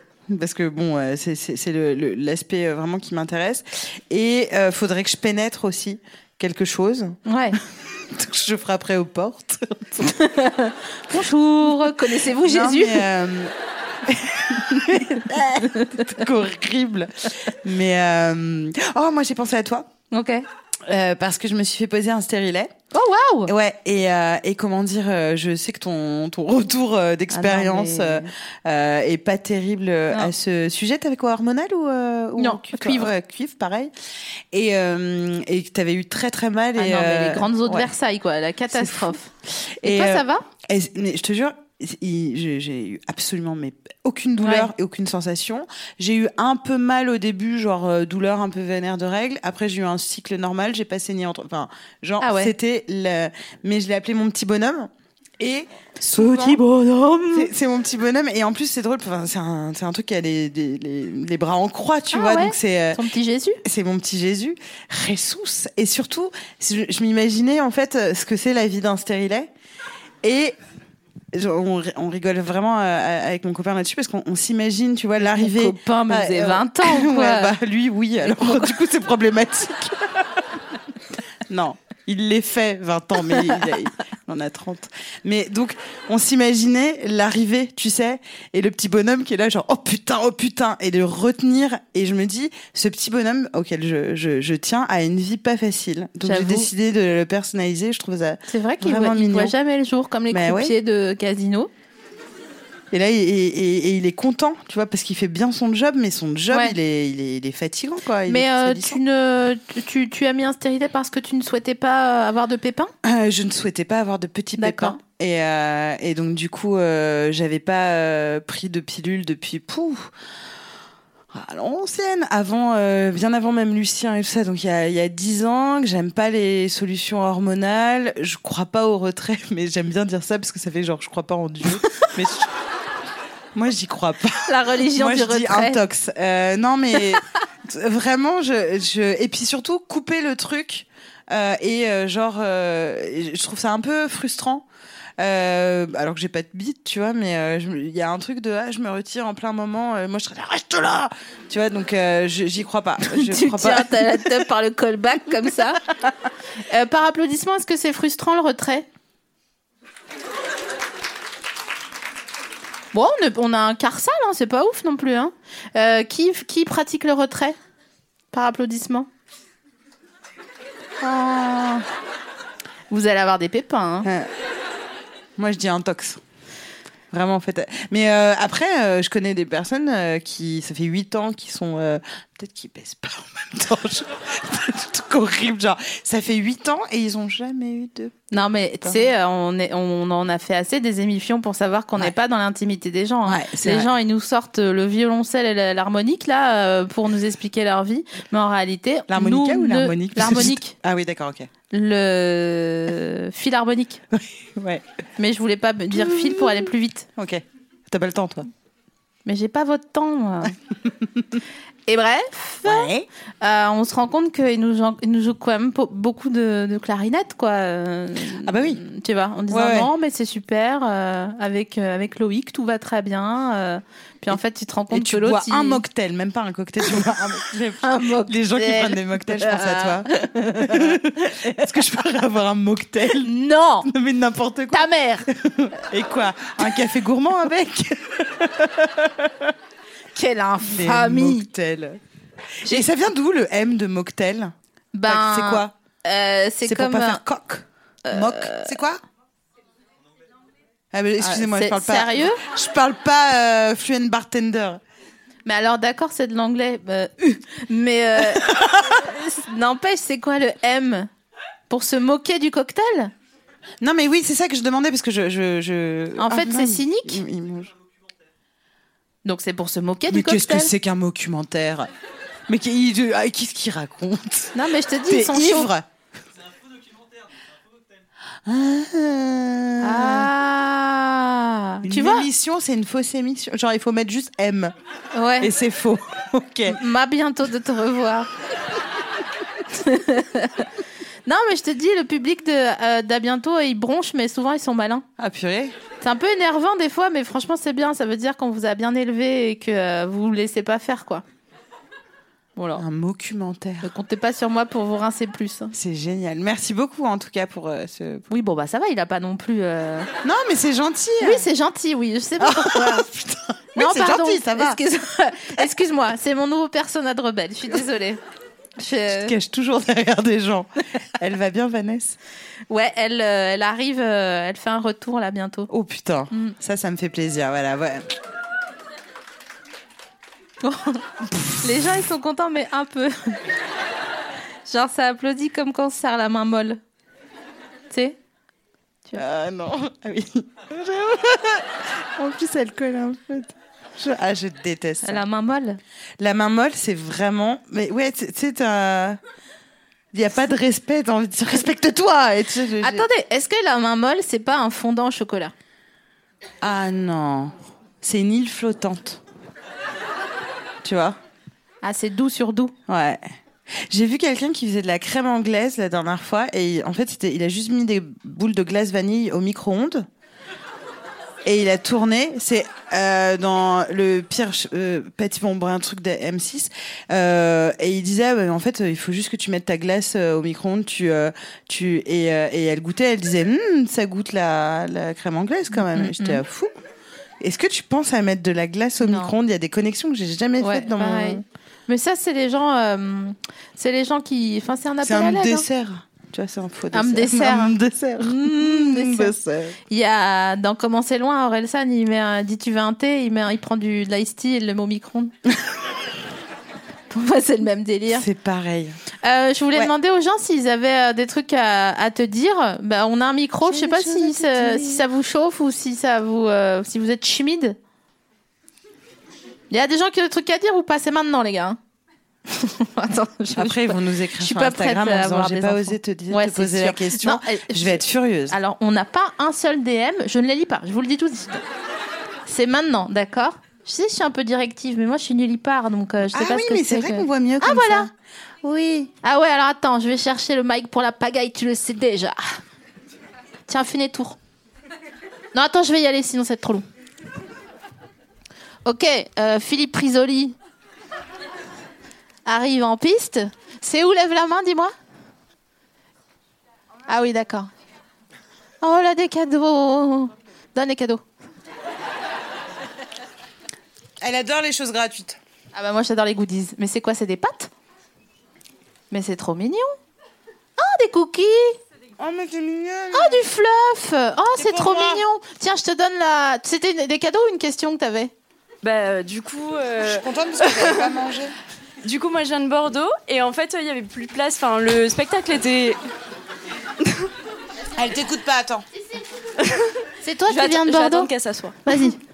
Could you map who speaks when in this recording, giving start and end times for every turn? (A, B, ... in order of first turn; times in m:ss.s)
0:00.3-0:07.2 A
0:07.3-0:07.6 B
0:08.1-0:10.2 A
0:10.0-0:13.1 B
0:12.2-0:13.5 A
0:14.0-0:19.9 A
0:15.6-0:16.2 B
0:20.1-0:20.4 B
0:20.9-0:22.7 A
0:22.9-0:23.5 B
0:23.5-0:33.9 A
0:27.3-0:28.3 B
0:32.4-0:33.1 B
0:34.5-0:37.9 A
0:36.8-0:39.3 B
0:38.7-1:03.0 A
0:39.8-0:40.4 B
0:44.4-0:44.7 B
0:52.2-0:52.5 B
0:56.2-0:57.5 B
1:02.1-1:03.6 B
1:03.6-1:09.5 A
1:10.2-1:10.6 A
1:11.3-1:20.4 A
1:15.3-1:17.5 B
1:18.2-1:18.7 B
1:21.5-1:39.6 A
1:36.2-1:36.7 B
1:38.5-1:41.7 B
1:40.3-1:40.8 A
1:42.9-1:49.0 A
1:46.5-1:46.8 B
1:48.3-1:52.9 B
1:53.0-2:00.1 A
1:54.6-1:55.0 B
2:01.3-2:12.5 A
2:13.5-2:24.6 A
2:14.5-2:15.8 B
2:25.2-2:34.5 A
2:33.0-2:35.8 B
2:36.7-2:38.9 B
2:42.9-2:47.6 B
2:48.3-2:49.1 B
2:51.0-2:51.9 A
2:52.9-2:54.1 B
2:54.0-2:54.3 A
2:55.4-2:56.2 A
2:57.1-3:09.1 A
3:08.3-3:20.7 B
3:13.2-3:13.9 A
3:19.1-3:21.5 A
3:21.7-3:24.0 B
3:24.1-3:24.8 A
3:25.2-3:27.1 B
3:25.9-3:28.5 A
3:29.3-3:30.6 B
3:31.9-3:45.8 B
3:32.6-3:33.1 A
3:38.4-3:38.8 A
3:39.5-3:39.9 A
3:44.9-3:53.3 A
3:47.8-3:51.8 B
3:53.2-3:53.9 B
3:53.8-3:59.5 A
3:54.7-3:55.3 B
4:00.1-4:01.5 B
4:00.6-4:02.0 A
4:02.6-4:04.5 A
4:04.9-4:07.2 B
4:05.1-4:05.7 A
4:06.6-4:09.0 A
4:08.0-4:08.8 B
4:10.9-4:14.8 A
4:11.2-4:12.4 B
4:15.5-4:21.1 B
4:18.2-4:19.1 A
4:21.7-4:23.1 B
4:23.8-4:27.7 A
4:26.2-4:27.2 B
4:29.2-4:30.7 B
4:30.1-4:31.9 A
4:32.5-4:34.6 A
4:34.6-4:35.7 B
4:35.1-4:35.9 A
4:38.5-4:40.3 A
4:39.8-4:42.3 B
4:41.8-4:44.7 A
4:45.1-4:45.5 B
4:45.4-4:46.8 A
4:46.7-4:48.3 B
4:49.7-4:50.7 B
4:51.3-4:55.1 B
4:55.2-4:55.8 A
4:56.0-5:01.2 B
5:02.6-5:02.8 B
5:02.8-5:03.9 A
5:03.8-5:05.7 B
5:05.7-5:08.3 A
5:08.3-5:10.1 B
5:10.2-5:11.5 A
5:11.2-5:13.1 B
5:12.4-5:14.8 A
5:13.8-5:18.2 B
5:18.8-5:19.3 B
5:19.1-5:22.2 A
5:22.7-5:25.7 B
5:25.7-5:28.1 A
5:30.6-5:33.4 B
5:34.7-5:36.8 B
5:37.9-5:38.2 B
5:39.2-5:45.2 A
5:45.0-5:45.8 B
5:46.2-5:49.2 A
5:50.1-5:53.1 A
5:52.8-5:55.5 B
5:56.6-5:59.2 A
6:00.8-6:01.2 A
6:01.8-6:02.7 B
6:02.9-6:10.1 A
6:11.4-6:26.7 A
6:25.8-6:26.4 B
6:27.4-6:31.4 A
6:29.0-6:29.3 B
6:30.6-6:35.7 B
6:35.0-6:39.8 A
6:36.9-6:39.4 B
6:39.9-6:45.3 B
6:47.1-6:48.3 B
6:48.1-6:49.0 A
6:49.2-6:57.8 B
6:53.6-6:55.0 A
6:59.7-7:01.8 B
7:02.5-7:11.6 B
7:03.6-7:08.6 A
7:12.5-7:18.1 B
7:16.3-7:18.1 A
7:18.6-7:19.1 A
7:19.2-7:22.6 B
7:23.7-7:24.4 B
7:25.5-7:26.9 B
7:28.8-7:30.6 B
7:32.5-7:34.9 B
7:37.1-7:37.7 B
7:38.8-7:41.2 B
7:44.2-7:45.4 A
7:45.7-7:47.7 B
7:49.1-7:50.0 B
7:50.8-7:51.8 B
7:52.2-7:53.4 A
7:53.1-7:58.3 B
7:54.6-7:55.2 A
7:58.8-8:01.1 C
8:00.0-8:01.6 A
8:02.0-8:06.0 C
8:08.0-8:08.9 A
8:09.6-8:09.9 C
8:10.2-8:11.3 B
8:10.5-8:11.8 C
8:11.9-8:12.2 A